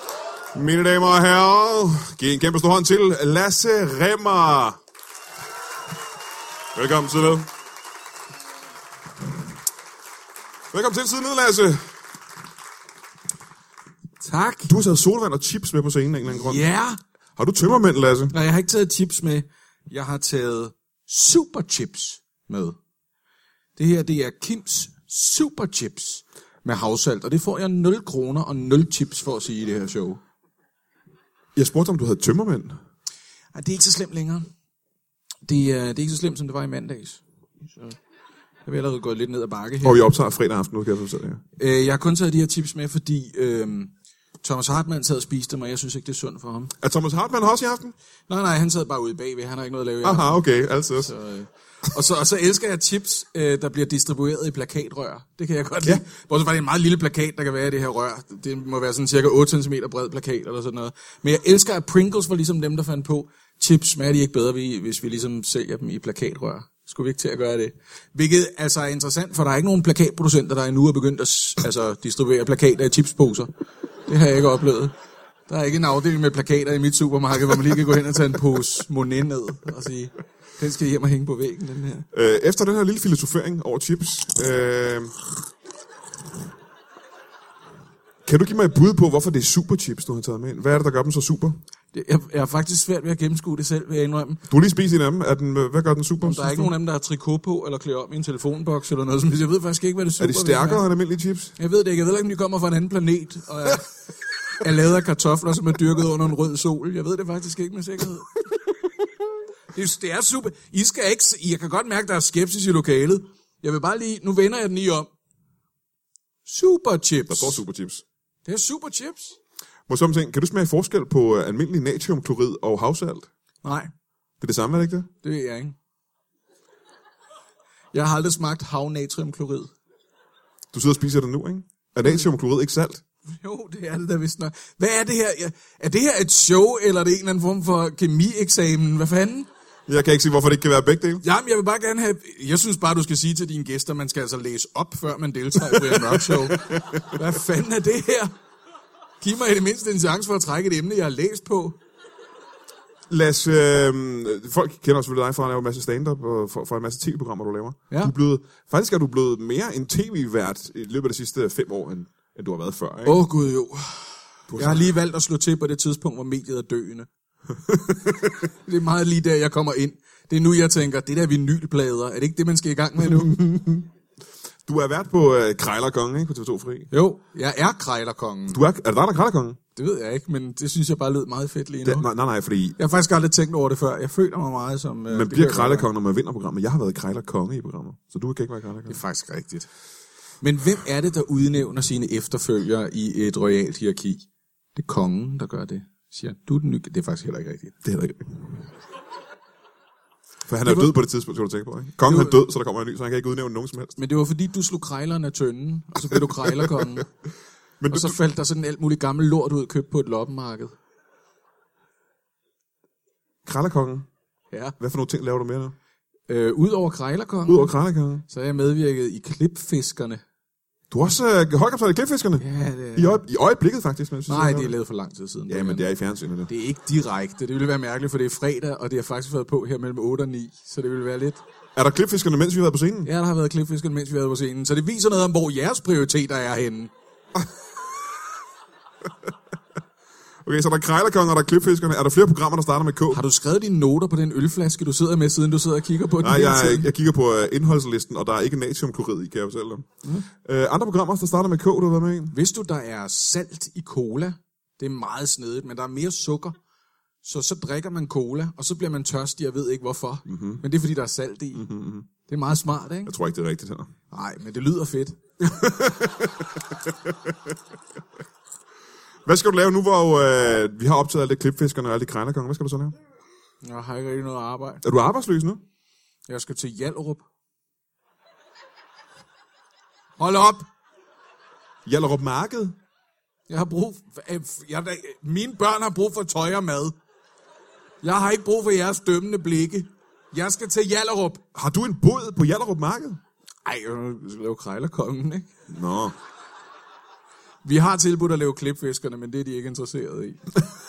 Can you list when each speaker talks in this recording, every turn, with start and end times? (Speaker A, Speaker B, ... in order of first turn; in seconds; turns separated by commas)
Speaker A: 0.5-4.8, Speaker A: 6.7-7.5, Speaker A: 10.7-11.9, Speaker B: 14.2-14.7, Speaker A: 14.6-16.6, Speaker B: 16.3-17.0, Speaker A: 17.4-18.3, Speaker B: 18.3-22.8, Speaker B: 23.8-30.2, Speaker A: 31.5-32.8, Speaker B: 33.5-34.5, Speaker B: 35.5-38.0, Speaker B: 38.6-40.0, Speaker A: 39.8-41.4, Speaker B: 41.6-46.7, Speaker A: 46.8-47.9, Speaker B: 48.3-50.4, Speaker A: 50.0-51.1, Speaker B: 51.0-73.5, Speaker B: 74.1-74.9, Speaker B: 75.5-82.0, Speaker A: 82.1-85.2, Speaker A: 88.2-91.6, Speaker B: 91.9-94.4, Speaker A: 94.5-96.7, Speaker B: 96.2-100.8, Speaker A: 100.2-101.5, Speaker B: 101.6-103.9, Speaker B: 104.6-108.3, Speaker B: 109.7-115.1, Speaker B: 116.5-117.6, Speaker A: 117.3-118.0, Speaker B: 118.5-119.4, Speaker A: 119.9-123.3, Speaker B: 123.6-123.9, Speaker A: 124.4-125.1, Speaker B: 125.2-125.8, Speaker B: 127.9-129.7, Speaker A: 130.7-133.0, Speaker B: 133.4-139.5, Speaker A: 139.9-141.2, Speaker B: 141.2-148.3, Speaker A: 145.7-147.2, Speaker B: 149.2-151.8, Speaker A: 153.1-163.2, Speaker B: 163.0-167.1, Speaker A: 164.5-164.9, Speaker A: 167.7-168.3, Speaker B: 168.6-173.8, Speaker A: 174.7-176.9, Speaker B: 176.9-178.6, Speaker A: 178.5-179.6, Speaker B: 179.7-182.1, Speaker A: 181.8-182.8, Speaker B: 182.8-185.9, Speaker A: 185.1-189.0, Speaker B: 188.9-189.7, Speaker B: 190.4-197.8, Speaker A: 197.8-198.2, Speaker A: 200.5-204.0, Speaker B: 200.6-200.9, Speaker B: 202.0-202.3, Speaker B: 204.0-207.1, Speaker A: 207.8-208.2, Speaker B: 207.9-210.8, Speaker A: 213.4-214.1, Speaker A: 214.8-215.7, Speaker B: 216.3-220.2, Speaker A: 217.4-218.2, Speaker A: 220.9-224.7, Speaker B: 222.4-223.2, Speaker B: 224.3-225.9, Speaker A: 225.5-226.5, Speaker B: 226.5-231.4, Speaker A: 231.8-233.1, Speaker B: 233.0-236.9, Speaker A: 240.4-243.2, Speaker B: 243.1-246.9, Speaker A: 246.2-252.3, Speaker B: 252.3-256.6, Speaker B: 257.2-263.1, Speaker A: 260.3-260.6, Speaker A: 261.5-262.1, Speaker A: 263.1-263.9, Speaker B: 264.1-265.2, Speaker A: 265.4-267.4, Speaker A: 269.2-272.9, Speaker B: 273.6-274.8, Speaker A: 274.8-275.6, Speaker B: 276.3-277.2, Speaker B: 280.2-280.7, Speaker A: 281.8-282.7, Speaker B: 283.5-286.9, Speaker B: 288.0-291.4, Speaker A: 291.5-293.2, Speaker B: 293.6-295.5, Speaker A: 295.7-296.1, Speaker B: 297.6-300.4